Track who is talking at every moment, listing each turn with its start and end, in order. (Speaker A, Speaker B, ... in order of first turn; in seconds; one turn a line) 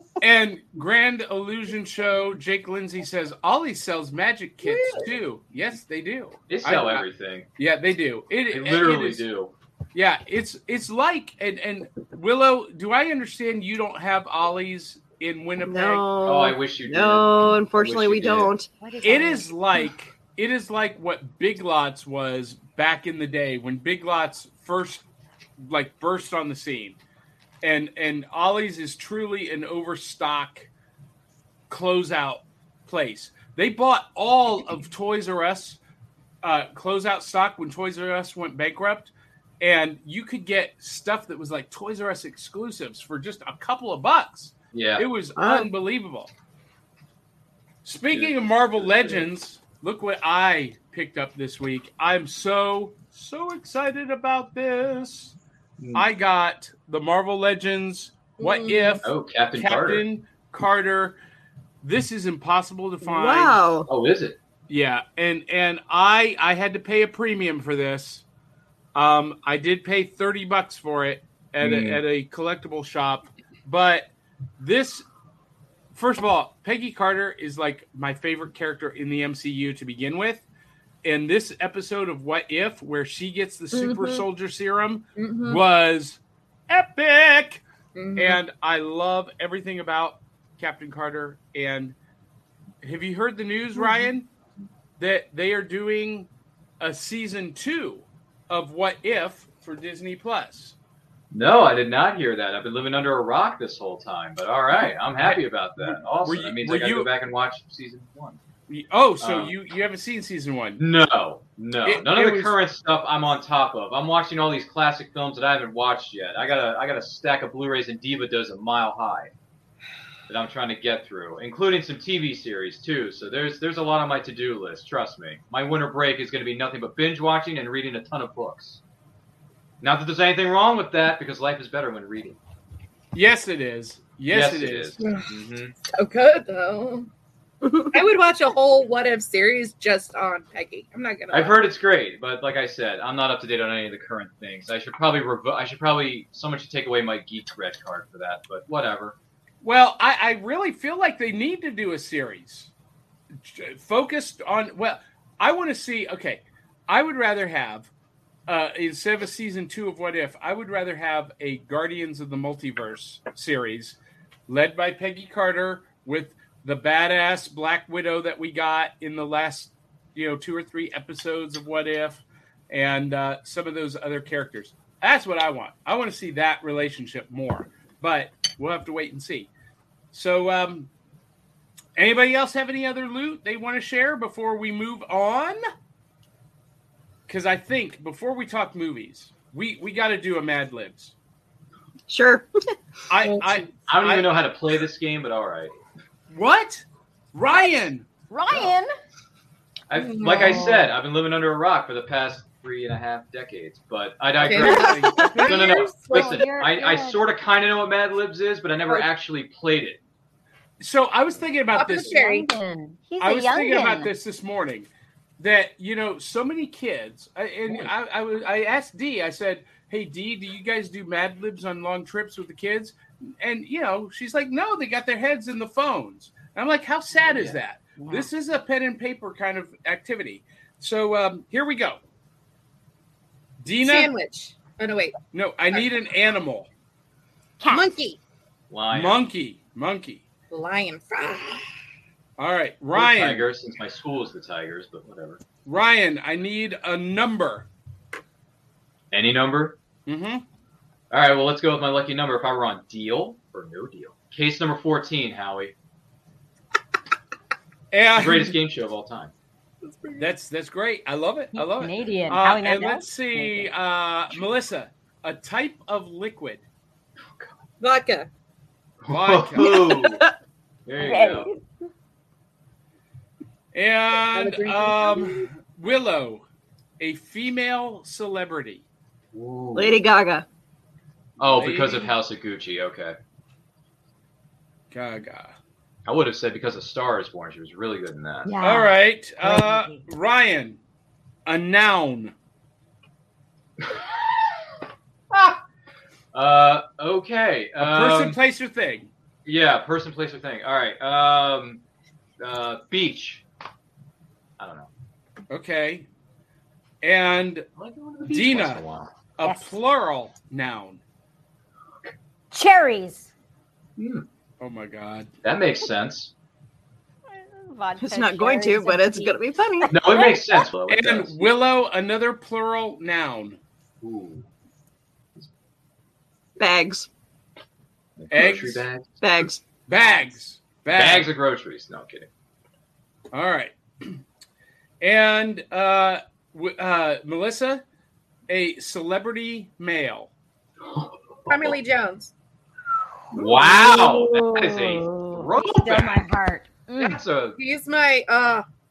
Speaker A: 0.2-7.0
Speaker B: 6.5-7.5
Speaker A: 7.6-9.2
Speaker B: 8.5-9.5
Speaker A: 9.9-16.1
Speaker C: 15.6-18.7
Speaker B: 16.2-18.5
Speaker D: 18.8-19.6
Speaker A: 19.0-25.0
Speaker A: 25.6-27.0
Speaker A: 27.6-30.7
Speaker A: 31.7-35.8
Speaker A: 36.4-46.3
Speaker B: 44.7-45.1
Speaker C: 45.4-45.7
Speaker A: 47.8-55.4
Speaker B: 48.1-49.3
Speaker B: 55.8-56.1
Speaker A: 55.9-61.2
Speaker E: 58.4-59.0
Speaker B: 59.0-60.0
Speaker A: 61.8-63.6
Speaker C: 63.0-63.9
Speaker B: 63.9-64.4
Speaker A: 64.7-68.2
Speaker A: 69.0-75.0
Speaker B: 71.6-72.0
Speaker A: 75.9-80.5
Speaker A: 81.0-87.6
Speaker E: 83.7-84.3
Speaker E: 85.2-85.6
Speaker E: 88.0-88.4
Speaker A: 88.2-92.0
Speaker A: 92.8-94.3
Speaker E: 93.8-94.1
Speaker A: 95.0-96.3
Speaker A: 96.8-100.8
Speaker B: 101.3-108.4
Speaker A: 105.2-107.1
Speaker A: 108.7-110.8
Speaker B: 109.2-109.5
Speaker B: 110.8-119.3
Speaker A: 111.8-112.5
Speaker B: 120.3-128.8
Speaker B: 129.8-132.4
Speaker A: 133.1-135.0
Speaker B: 134.3-135.8
Speaker E: 135.0-137.1
Speaker C: 137.6-137.9
Speaker E: 137.9-141.6
Speaker B: 141.3-149.2
Speaker A: 149.6-152.7
Speaker A: 153.4-157.9
Speaker A: 158.5-179.5
Speaker A: 180.1-180.9
Speaker A: 182.0-185.6
Speaker A: 187.3-191.1
Speaker C: 192.1-192.5
Speaker A: 193.1-194.3
Speaker E: 193.2-193.7
Speaker B: 193.9-195.8
Speaker A: 196.3-198.1
Speaker D: 197.5-198.9
Speaker B: 199.9-210.0
Speaker E: 199.9-200.9
Speaker E: 204.4-206.5
Speaker A: 204.4-205.9
Speaker D: 206.1-207.2
Speaker A: 210.8-212.2
Speaker E: 211.7-212.5
Speaker D: 211.9-214.1
Speaker A: 213.2-214.9
Speaker A: 215.4-232.0
Speaker B: 227.2-227.6
Speaker D: 228.0-228.3
Speaker A: 233.6-234.1
Speaker E: 233.8-235.2
Speaker A: 235.3-236.7
Speaker D: 237.6-237.9
Speaker E: 237.7-238.2
Speaker B: 238.7-239.2
Speaker A: 238.9-240.2
Speaker E: 240.5-241.7
Speaker A: 242.4-243.5
Speaker B: 242.9-245.4
Speaker A: 245.7-247.7
Speaker B: 249.1-249.8
Speaker A: 250.1-250.4
Speaker B: 251.1-255.7
Speaker A: 257.9-258.6
Speaker B: 258.2-259.3
Speaker E: 259.8-260.3
Speaker A: 260.2-266.6
Speaker D: 261.5-263.7
Speaker E: 267.8-268.3
Speaker B: 269.0-270.2
Speaker A: 269.1-269.7
Speaker C: 269.6-270.3
Speaker B: 270.9-271.5
Speaker D: 271.0-271.6
Speaker A: 273.7-276.4
Speaker E: 274.3-275.5
Speaker A: 277.0-278.8
Speaker B: 279.3-280.0
Speaker C: 279.8-280.4
Speaker B: 281.4-283.2
Speaker A: 281.4-282.1
Speaker A: 284.9-285.5
Speaker B: 286.1-288.5
Speaker D: 288.4-290.1
Speaker A: 288.6-290.8
Speaker A: 291.5-292.3
Speaker B: 295.3-295.6
Speaker B: 296.3-298.4
Speaker A: 297.8-299.1
Speaker B: 299.5-301.8
Speaker B: 302.4-303.4
Speaker B: 304.6-304.9
Speaker A: 305.5-306.1
Speaker A: 307.0-307.7
Speaker B: 307.8-309.1
Speaker A: 308.3-308.8
Speaker A: 309.4-311.0
Speaker D: 309.4-309.7
Speaker D: 312.5-313.3
Speaker B: 314.0-314.3
Speaker A: 314.6-315.3
Speaker B: 315.4-316.3
Speaker D: 317.3-320.6
Speaker C: 318.0-320.0
Speaker B: 319.9-321.4
Speaker A: 320.9-323.6
Speaker B: 324.0-324.5
Speaker C: 326.6-327.1
Speaker B: 328.2-329.1
Speaker A: 328.3-328.9
Speaker C: 329.2-329.6
Speaker A: 329.9-331.3
Speaker B: 330.9-332.3
Speaker A: 333.3-334.2
Speaker A: 335.0-337.8
Speaker A: 338.5-340.3
Speaker B: 340.8-341.8
Speaker E: 341.5-342.3
Speaker B: 343.3-346.2
Speaker D: 343.3-347.2
Speaker B: 347.0-347.6
Speaker E: 347.6-348.7